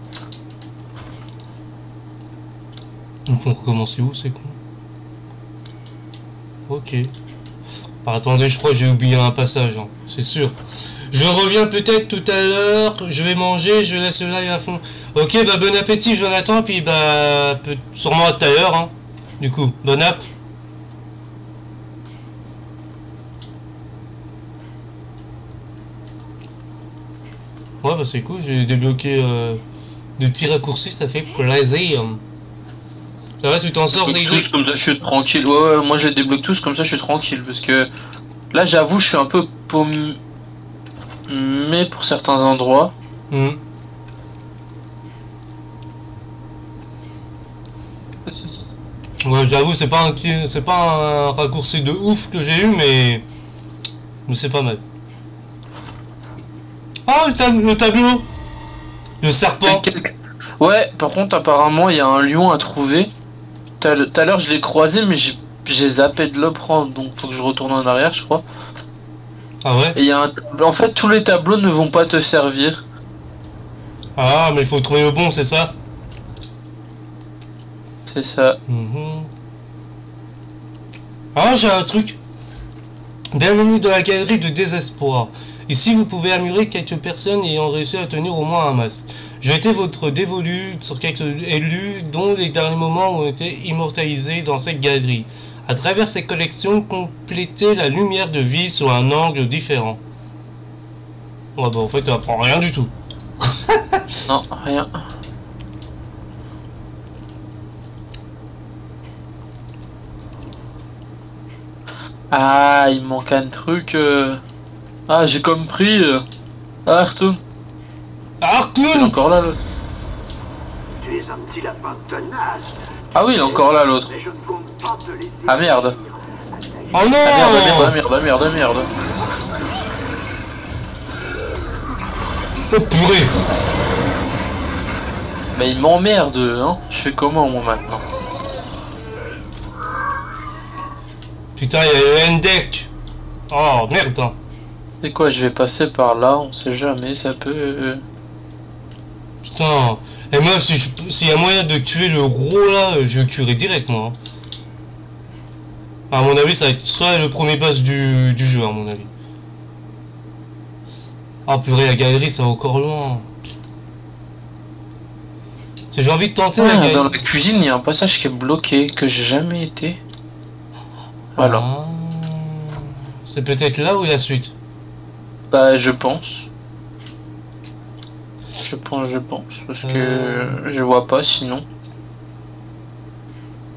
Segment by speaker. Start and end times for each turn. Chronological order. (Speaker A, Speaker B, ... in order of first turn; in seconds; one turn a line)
Speaker A: 3.3-4.6
Speaker A: 6.7-7.1
Speaker A: 8.0-10.6
Speaker A: 11.1-20.2
Speaker A: 27.8-29.6
Speaker A: 30.2-32.2
Speaker A: 33.4-34.5
Speaker B: 33.9-37.9
Speaker B: 38.5-40.2
Speaker B: 41.3-42.9
Speaker A: 43.3-43.6
Speaker B: 48.3-48.6
Speaker A: 49.2-53.2
Speaker A: 54.2-54.8
Speaker A: 57.0-58.3
Speaker A: 59.2-59.9
Speaker B: 59.6-63.1
Speaker B: 63.8-68.4
Speaker A: 69.6-70.0
Speaker B: 69.9-72.8
Speaker A: 74.2-75.8
Speaker B: 78.1-78.6
Speaker A: 78.7-79.3
Speaker A: 81.3-82.2
Speaker A: 83.3-100.0
Speaker A: 101.5-102.9
Speaker A: 103.5-104.0
Speaker B: 104.3-104.9
Speaker B: 112.3-114.4
Speaker B: 115.1-116.2
Speaker B: 116.8-117.4
Speaker A: 118.4-119.2
Speaker B: 118.9-119.6
Speaker C: 121.0-126.9
Speaker B: 123.1-124.2
Speaker B: 125.5-126.0
Speaker A: 126.9-128.0
Speaker B: 127.2-128.9
Speaker A: 132.7-133.3
Speaker B: 135.5-138.0
Speaker A: 141.6-142.9
Speaker A: 143.5-144.4
Speaker B: 145.0-148.0
Speaker A: 149.4-154.2
Speaker A: 156.1-159.1
Speaker A: 161.4-163.3
Speaker A: 165.9-167.2
Speaker B: 166.6-170.0
Speaker B: 171.3-171.6
Speaker A: 171.3-174.5
Speaker B: 175.5-176.5
Speaker B: 178.6-181.6
Speaker A: 179.8-180.6